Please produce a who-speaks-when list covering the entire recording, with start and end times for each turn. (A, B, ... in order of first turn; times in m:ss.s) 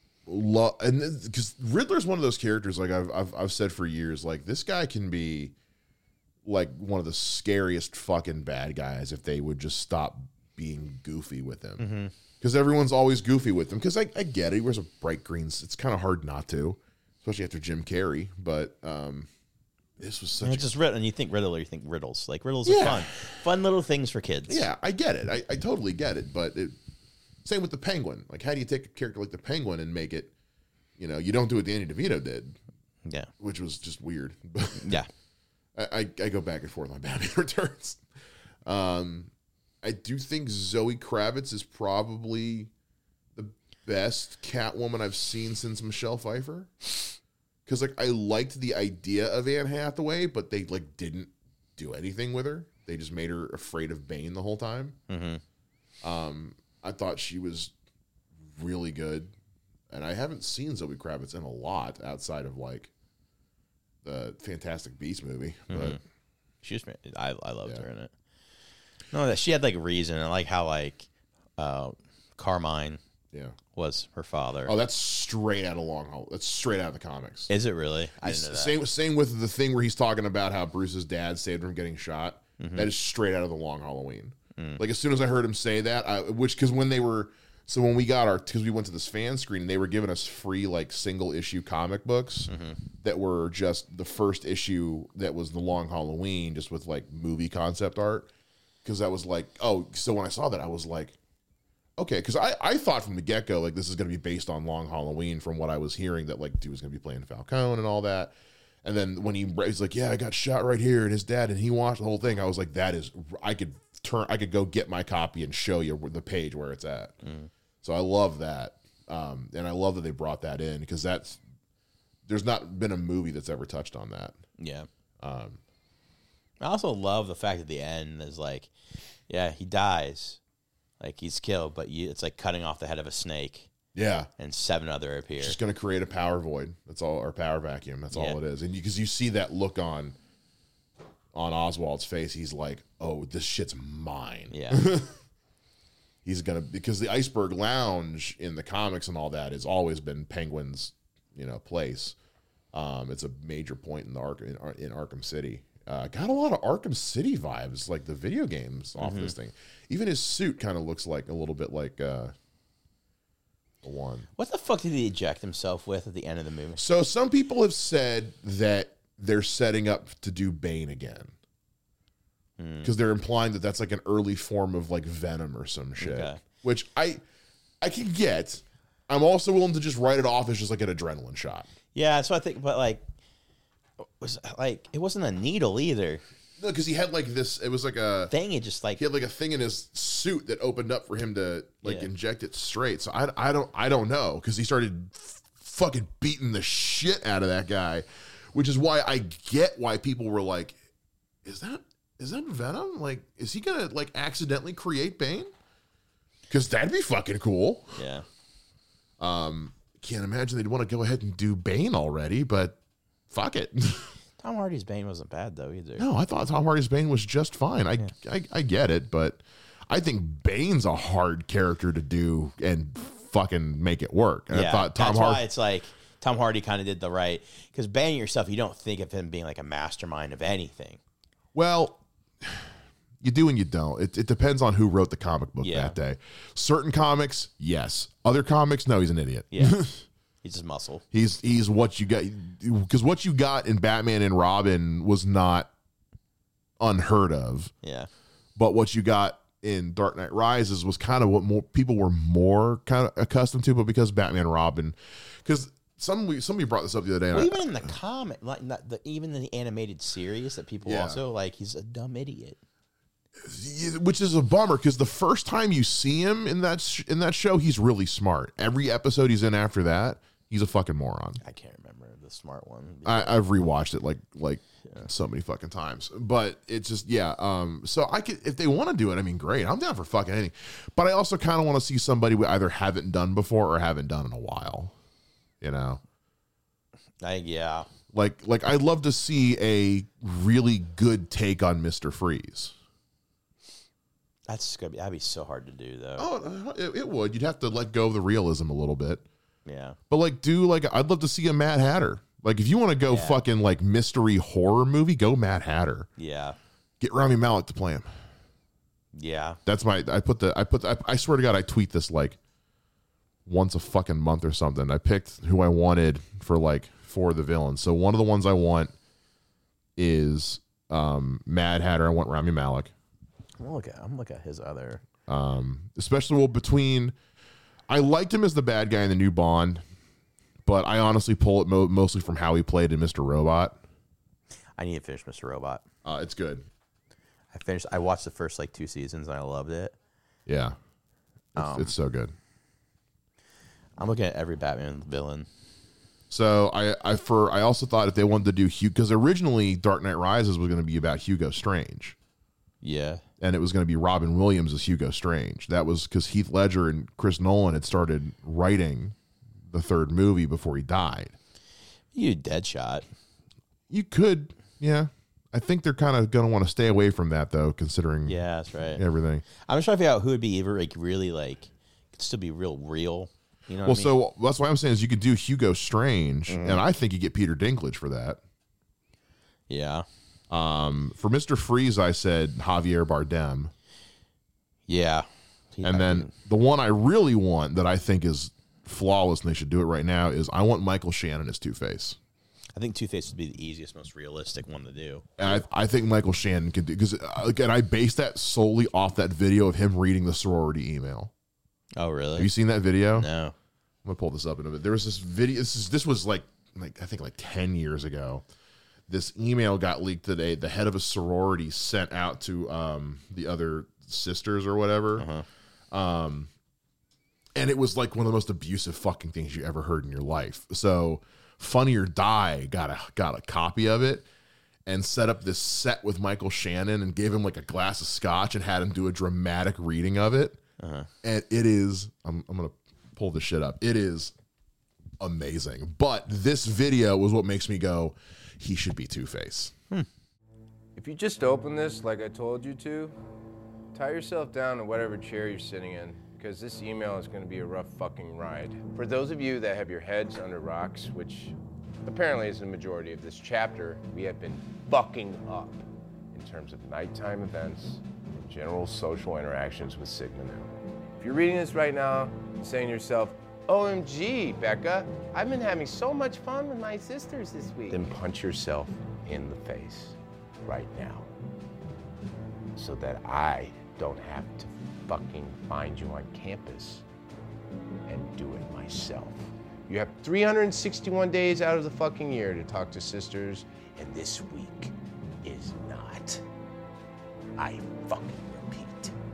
0:00.3-0:05.5 A
0:06.4-0:19.3 A
0:11.8-0:12.1 B
0:20.0-0:20.7 A
0:20.4-0:24.6 B
0:22.6-0:23.4 A
0:24.5-0:26.8 A
0:27.4-0:30.3 A
0:31.0-0:32.6 A
0:33.0-0:33.3 B
0:33.4-0:35.0 A
0:34.8-0:35.1 B
0:35.7-0:38.0 A
0:38.6-0:39.3 A
0:39.8-0:42.7 A
0:43.4-0:46.9 A
0:47.6-0:55.0 A
0:55.1-0:55.4 B
0:56.0-0:57.7 A
0:58.5-0:59.3 A
0:59.9-1:02.9 A
1:04.0-1:06.0 A
1:05.7-1:06.0 B
1:06.6-1:08.1 B
1:09.1-1:13.0 B
1:13.7-1:14.7 B
1:14.6-1:17.5 A
1:17.5-1:18.8 B
1:18.2-1:38.3 A
1:22.6-1:22.9 B
1:24.6-1:24.8 B
1:32.5-1:32.8 B
1:38.8-1:41.2 A
1:42.0-1:57.2 A
1:57.2-1:57.5 B
1:57.8-2:01.4 A
2:02.3-2:04.4 A
2:04.6-2:04.9 B
2:05.2-2:05.6 A
2:06.6-2:08.7 B
2:09.3-2:10.4 B
2:11.0-2:13.7 B
2:13.9-2:14.3 A
2:14.4-2:15.6 B
2:15.4-2:20.2 A
2:18.1-2:18.4 B
2:21.3-2:25.1 A
2:24.5-2:24.9 B
2:26.2-2:32.2 A
2:32.7-2:42.3 A
2:39.0-2:39.3 B
2:43.8-2:44.3 A
2:44.4-2:46.8 B
2:46.8-2:51.3 A
2:52.6-2:52.9 B
2:52.8-2:57.2 A
2:56.0-2:56.4 B
2:57.8-3:01.7 A
3:01.9-3:03.0 B
3:04.0-3:06.2 B
3:06.6-3:08.3 A
3:08.3-3:09.0 B
3:09.0-3:20.8 A
3:11.8-3:12.1 B
3:21.4-3:25.5 A
3:26.5-3:28.0 A
3:28.0-3:28.2 B
3:29.2-3:32.8 A
3:33.3-3:34.2 A
3:34.4-3:36.0 B
3:36.0-3:45.4 A
3:44.5-3:51.0 B
3:51.5-3:52.7 A
3:53.2-4:00.0 A
3:55.6-3:56.0 B
3:59.5-3:59.8 B
4:00.4-4:01.0 B
4:01.1-4:05.7 A
4:06.8-4:07.7 A
4:07.8-4:08.1 B
4:08.6-4:17.6 A
4:17.3-4:22.6 B
4:20.8-4:21.2 A
4:23.4-4:31.4 A
4:31.4-4:33.4 B
4:33.0-4:44.9 A
4:45.6-4:46.0 A
4:47.2-4:47.9 B
4:48.1-4:52.7 A
4:54.5-4:56.2 B
4:56.2-4:59.2 A
4:59.6-5:00.0 B
5:00.1-5:06.1 A
5:03.1-5:03.4 B
5:06.2-5:06.6 B
5:07.0-5:08.1 A
5:09.1-5:09.6 B
5:09.6-5:12.4 A
5:13.4-5:18.9 A
5:20.0-5:22.9 A
5:23.6-5:25.0 B
5:25.3-5:27.1 A
5:27.9-5:29.8 A
5:30.6-5:33.8 A
5:34.8-5:35.8 B
5:36.0-5:36.6 A
5:37.5-5:40.0 B
5:40.5-5:40.8 A
5:41.5-5:42.3 A
5:41.6-5:41.9 B
5:44.0-5:45.5 B
5:46.3-5:52.2 A
5:52.8-5:53.2 B
5:53.4-5:59.1 A
5:59.7-6:01.4 A
6:02.1-6:03.0 B
6:03.9-6:08.4 A
6:08.2-6:09.0 B
6:09.0-6:09.4 A
6:09.6-6:14.1 B
6:13.8-6:18.4 A
6:16.5-6:16.8 B
6:19.7-6:20.0 B
6:20.5-6:23.7 A
6:24.9-6:26.3 B
6:25.8-6:32.2 A
6:32.7-6:35.3 B
6:35.4-6:41.3 A
6:42.0-6:42.5 B
6:42.4-6:43.3 A
6:43.1-6:43.5 B
6:44.0-6:48.4 A
6:49.1-6:55.3 A
6:55.2-6:55.4 B
6:55.9-6:56.5 A
6:57.6-7:04.3 A
7:04.8-7:10.6 A
7:10.8-7:11.1 B
7:11.2-7:14.3 A
7:15.2-7:19.7 A
7:21.0-7:23.1 C
7:23.9-7:51.3 C
7:52.8-7:57.0 C
7:58.1-8:06.4 C
8:07.6-8:09.1 C